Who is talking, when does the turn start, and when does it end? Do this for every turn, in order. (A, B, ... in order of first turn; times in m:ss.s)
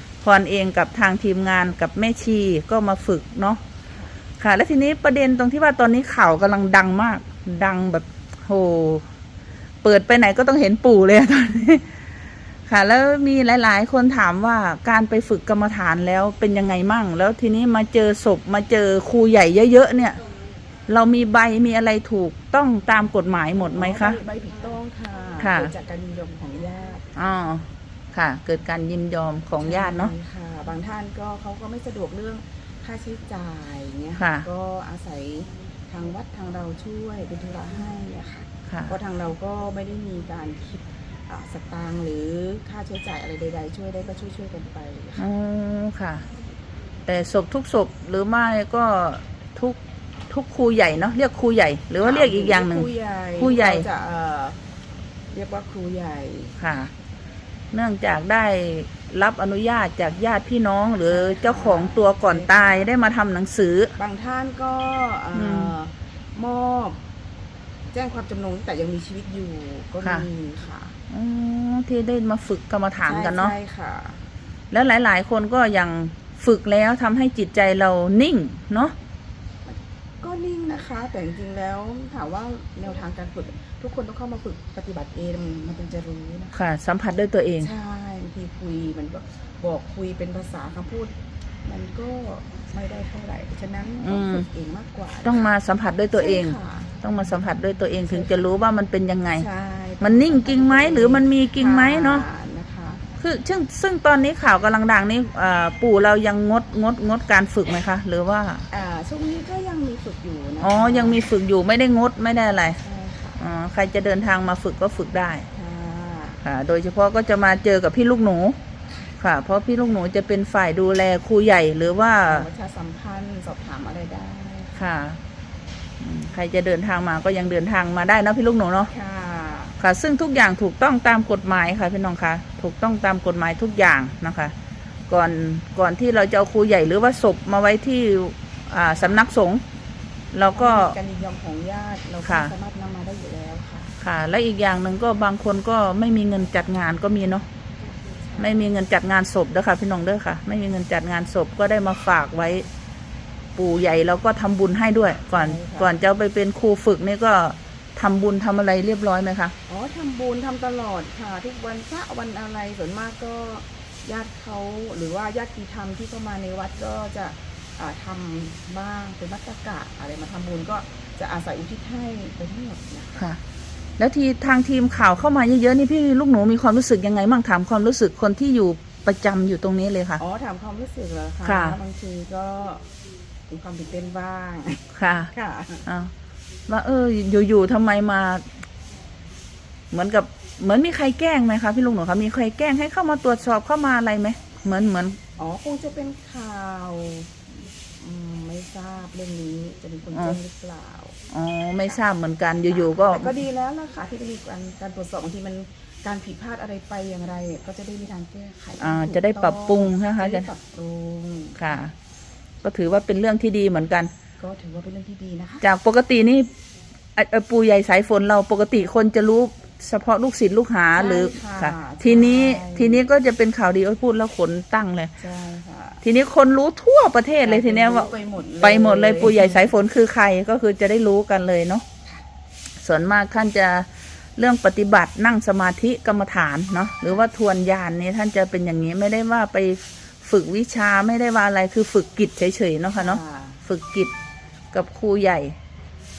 0:00.2-0:03.6 A
0:04.4-0:09.1 A
0:09.8-0:12.0 A
0:12.7-0:20.2 A
0:20.9-0:24.2 A
0:23.7-0:27.1 B
0:25.4-0:25.7 A
0:27.2-0:30.1 A
0:29.6-0:45.3 B
0:34.2-0:34.5 A
0:38.7-0:39.0 A
0:45.2-0:46.2 A
0:47.0-0:49.8 A
0:50.3-0:53.8 A
0:52.0-0:54.6 B
0:55.3-0:56.6 B
0:56.6-0:56.9 A
0:57.7-1:03.9 A
1:01.1-1:02.9 B
1:04.0-1:07.0 B
1:05.3-1:05.7 A
1:07.9-1:11.0 B
1:10.0-1:10.3 A
1:11.1-1:13.6 A
1:13.0-1:14.2 B
1:14.7-1:18.9 A
1:19.6-1:26.6 B
1:26.5-1:27.7 A
1:27.6-1:31.1 B
1:31.6-1:35.5 B
1:34.0-1:34.4 A
1:35.2-1:39.4 A
1:36.1-1:37.0 B
1:38.0-1:38.5 B
1:39.4-1:43.0 B
1:40.0-1:42.2 A
1:43.2-1:48.6 A
1:48.7-1:51.2 B
1:50.6-1:52.8 A
1:52.8-1:53.4 B
1:53.4-1:55.4 A
1:55.5-1:56.4 B
1:56.4-1:58.6 A
1:59.2-2:02.5 A
2:02.2-2:04.8 B
2:04.8-2:05.2 A
2:06.0-2:08.9 A
2:08.9-2:09.8 B
2:09.8-2:14.5 A
2:15.1-2:19.6 A
2:19.0-2:19.2 B
2:20.3-2:21.0 A
2:20.5-2:23.9 B
2:22.2-2:22.5 A
2:24.0-2:27.4 A
2:28.2-2:28.6 B
2:28.4-2:32.7 A
2:33.6-2:39.5 A
2:35.3-2:36.0 B
2:39.7-2:53.3 B
2:54.0-3:00.2 A
3:00.2-3:02.8 B
3:01.4-3:01.8 A
3:03.5-3:05.9 B
3:04.9-3:05.3 A
3:06.7-3:08.4 A
3:09.9-3:15.2 A
3:15.4-3:21.2 B
3:20.1-3:20.4 A
3:21.3-3:23.3 A
3:22.7-3:31.8 B
3:28.8-3:30.5 A
3:31.6-3:31.9 A
3:32.6-3:34.1 A
3:34.4-3:35.6 B
3:35.6-3:36.5 A
3:37.2-3:45.1 A
3:41.0-3:43.0 B
3:45.2-3:46.0 B
3:46.0-3:48.1 A
3:47.4-3:49.7 B
3:48.6-3:51.8 A
3:52.8-4:04.1 A
4:03.0-4:03.6 B
4:04.7-4:05.5 A